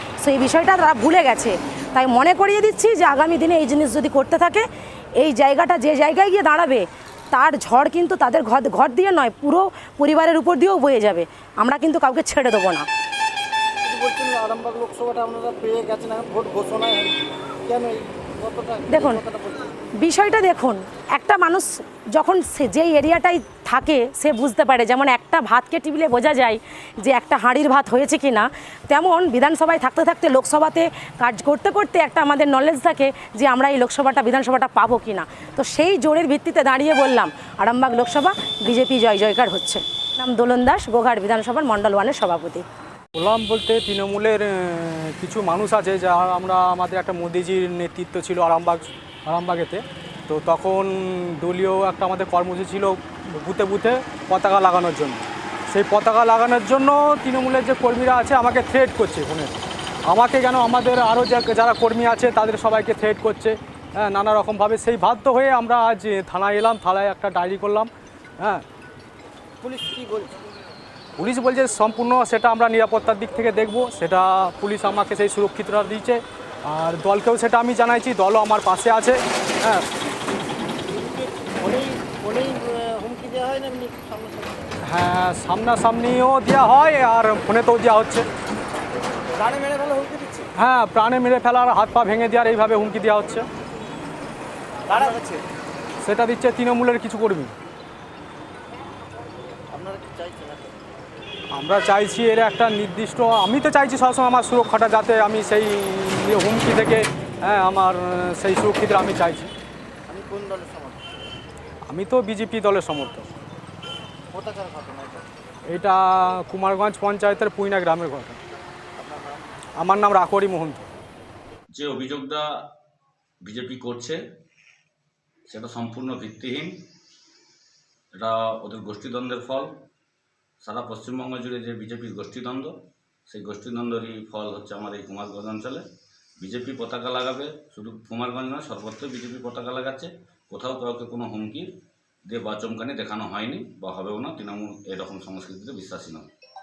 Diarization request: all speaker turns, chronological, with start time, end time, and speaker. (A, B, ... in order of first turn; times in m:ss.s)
0:00.2-0:04.6 A
0:05.2-0:12.9 A
0:13.8-0:19.7 B
0:18.9-0:19.2 A
0:20.0-0:42.6 A
0:43.2-1:07.9 C
1:09.6-1:10.4 B
1:11.2-1:19.8 C
1:20.8-1:24.7 B
1:24.9-1:28.3 C
1:29.4-1:30.5 B
1:30.6-1:33.5 C
1:34.9-1:35.2 B
1:36.0-1:37.5 C
1:39.7-1:40.8 B
1:41.6-1:49.5 C
1:50.1-1:51.3 B
1:51.9-1:53.3 C
1:54.3-1:55.3 B
1:55.7-1:58.4 C
1:59.0-1:59.4 B
1:59.8-2:00.9 C
2:01.7-2:02.5 D
2:03.4-2:04.2 D
2:05.5-2:06.8 D
2:08.2-2:09.7 D
2:10.6-2:12.8 D
2:13.3-2:15.8 D
2:16.4-2:21.7 D
2:22.3-2:26.3 D